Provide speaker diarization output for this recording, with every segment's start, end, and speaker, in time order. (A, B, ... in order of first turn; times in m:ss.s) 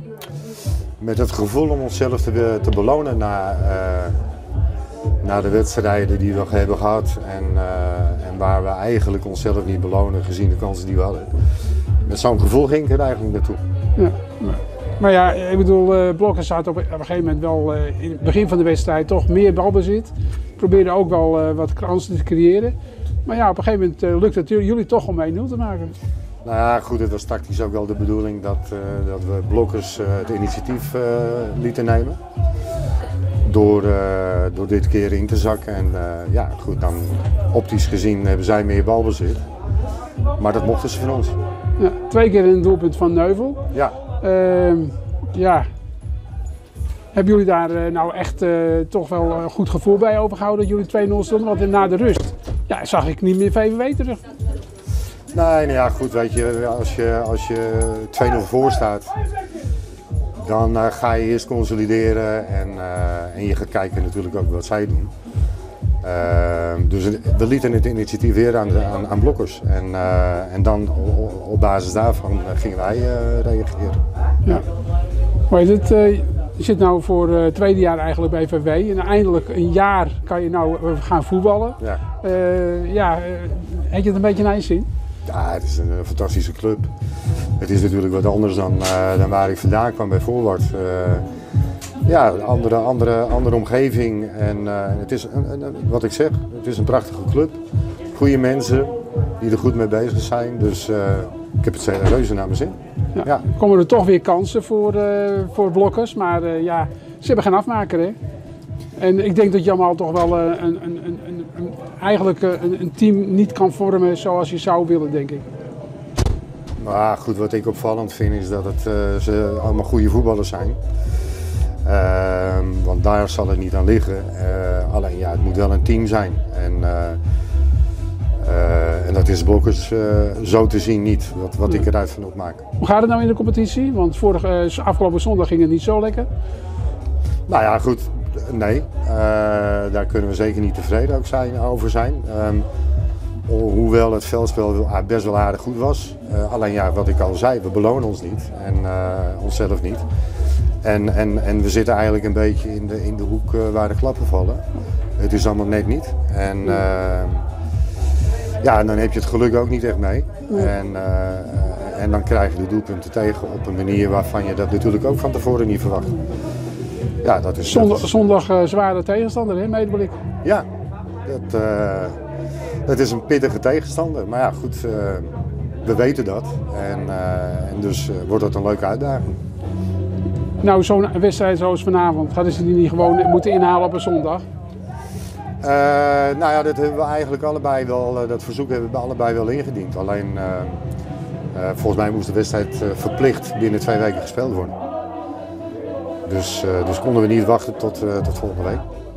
0:01.0-0:04.2 A
0:05.2-0:11.3 A
0:12.0-0:13.6 A
0:14.0-0:22.7 B
0:23.3-0:26.0 B
0:26.4-0:32.2 A
0:33.4-0:39.4 A
0:40.4-0:41.4 A
0:41.8-0:43.6 B
0:44.2-0:45.7 B
0:47.1-0:54.2 B
0:55.3-0:59.1 A
1:00.4-1:05.1 A
1:06.0-1:14.0 A
1:15.5-1:24.9 B
1:25.3-1:26.9 A
1:27.6-1:31.2 A
1:32.1-1:37.6 A
1:38.1-1:43.4 A
1:43.2-1:48.2 B
1:49.0-1:55.5 B
1:56.8-2:00.8 A
2:01.8-2:07.2 A
2:08.4-2:12.6 A
2:12.8-2:16.3 B
2:17.5-2:22.7 A
2:23.5-2:30.0 A
2:30.8-2:34.6 A
2:35.2-2:37.4 A
2:38.6-2:46.2 A
2:47.2-2:48.3 A
2:47.7-2:50.2 B
2:51.3-2:52.2 A
2:52.9-2:59.4 A
3:00.6-3:04.4 B
3:05.6-3:10.8 A
3:11.5-3:14.8 A
3:16.3-3:18.8 A